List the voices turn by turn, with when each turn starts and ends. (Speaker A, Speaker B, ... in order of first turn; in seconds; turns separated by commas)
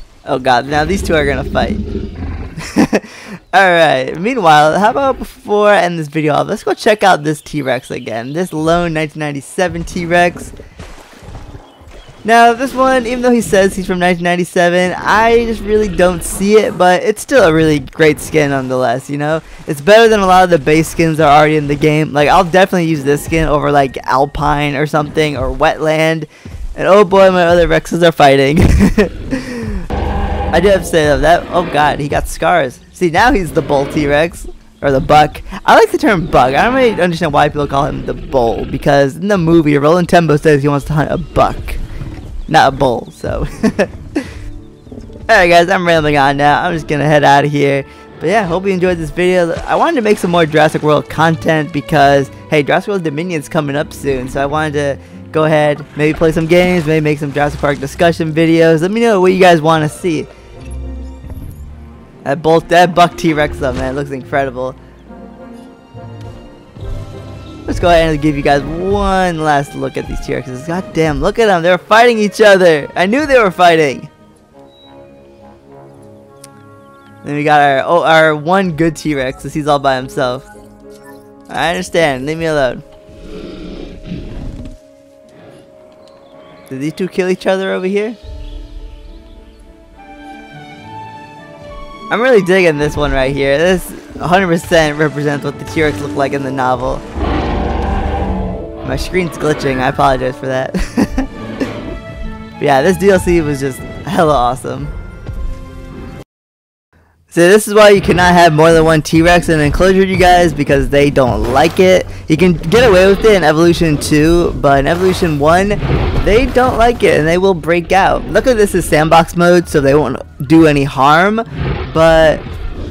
Speaker A: 0.2-1.8, Speaker A: 2.6-10.5, Speaker A: 12.2-29.9, Speaker A: 30.5-41.8, Speaker A: 42.5-44.2, Speaker A: 45.3-60.3, Speaker A: 62.2-64.8, Speaker A: 67.7-74.1, Speaker A: 77.2-80.5, Speaker A: 81.5-82.8, Speaker A: 86.7-88.2, Speaker A: 92.1-97.0, Speaker A: 98.8-101.3, Speaker A: 102.6-104.9, Speaker A: 107.3-122.4